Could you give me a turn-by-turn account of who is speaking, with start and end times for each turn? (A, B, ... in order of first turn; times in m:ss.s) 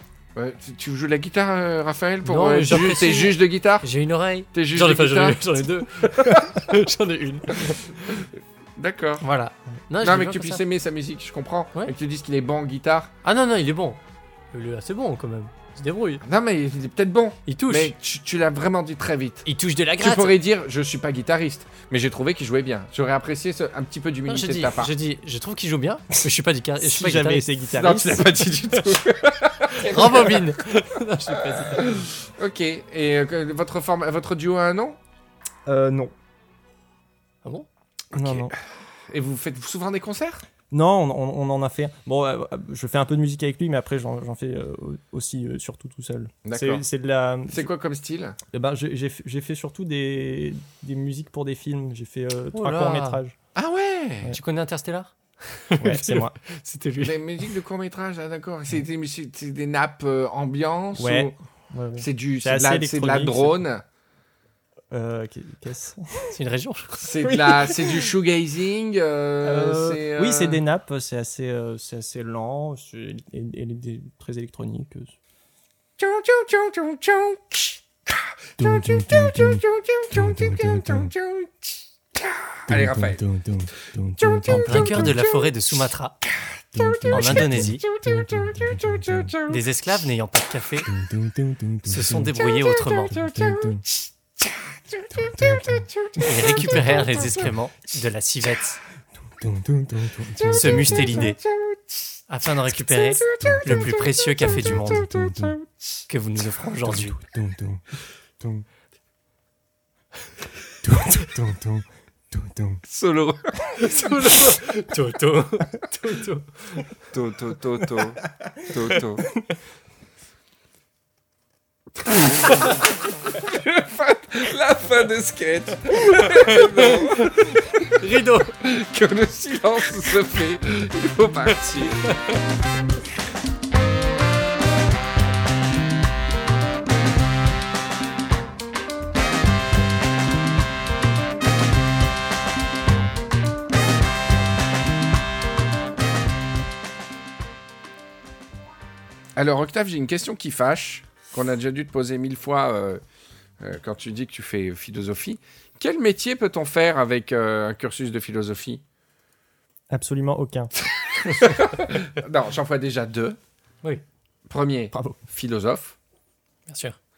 0:00.4-0:03.9 A
0:02.2-0:08.1 B
0:04.5-0:05.5 A
0:06.0-0:06.5 A
0:08.1-0:09.3 A
0:09.2-0:10.6 B
0:10.0-0:13.1 A
0:13.2-0:14.0 B
0:14.5-0:16.2 B
0:16.2-0:24.9 A
0:17.5-0:17.9 B
0:19.4-0:20.4 B
0:24.3-0:27.5 B
0:26.8-0:28.3 C
0:27.7-0:30.6 A
0:29.8-0:32.0 B
0:31.3-0:35.0 A
0:35.7-0:36.1 C
0:38.1-0:38.5 C
0:38.1-0:40.4 A
0:40.7-0:47.7 C
0:46.4-0:46.8 A
0:47.5-0:48.4 A
0:48.5-0:53.3 C
0:52.5-0:53.2 B
0:53.5-0:54.3 A
0:54.3-0:57.2 B
0:55.8-0:56.4 C
0:57.0-1:01.3 A
1:00.9-1:03.5 C
1:02.0-1:03.8 A
1:04.9-1:06.3 C
1:06.3-1:07.0 B
1:07.0-1:10.6 A
1:07.2-1:08.0 C
1:09.4-1:15.1 C
1:16.0-1:23.5 A
1:24.2-1:29.8 A
1:24.4-1:26.1 B
1:27.1-1:27.8 B
1:29.5-1:30.9 B
1:31.8-1:33.6 B
1:32.2-1:37.5 A
1:36.2-1:38.8 B
1:39.9-1:46.0 A
1:40.4-1:41.4 B
1:42.3-1:45.3 B
1:46.1-1:47.2 B
1:52.8-1:54.5 A
1:53.8-1:56.8 B
1:57.1-1:59.2 A
2:02.0-2:07.9 A
2:06.4-2:07.3 B
2:08.0-2:08.5 B
2:08.6-2:12.1 A
2:29.4-2:33.0 A
2:33.6-2:38.8 A
2:39.9-2:40.7 C
2:41.2-2:43.4 A
2:44.5-2:46.0 A
2:44.9-2:45.2 C
2:46.7-2:47.0 B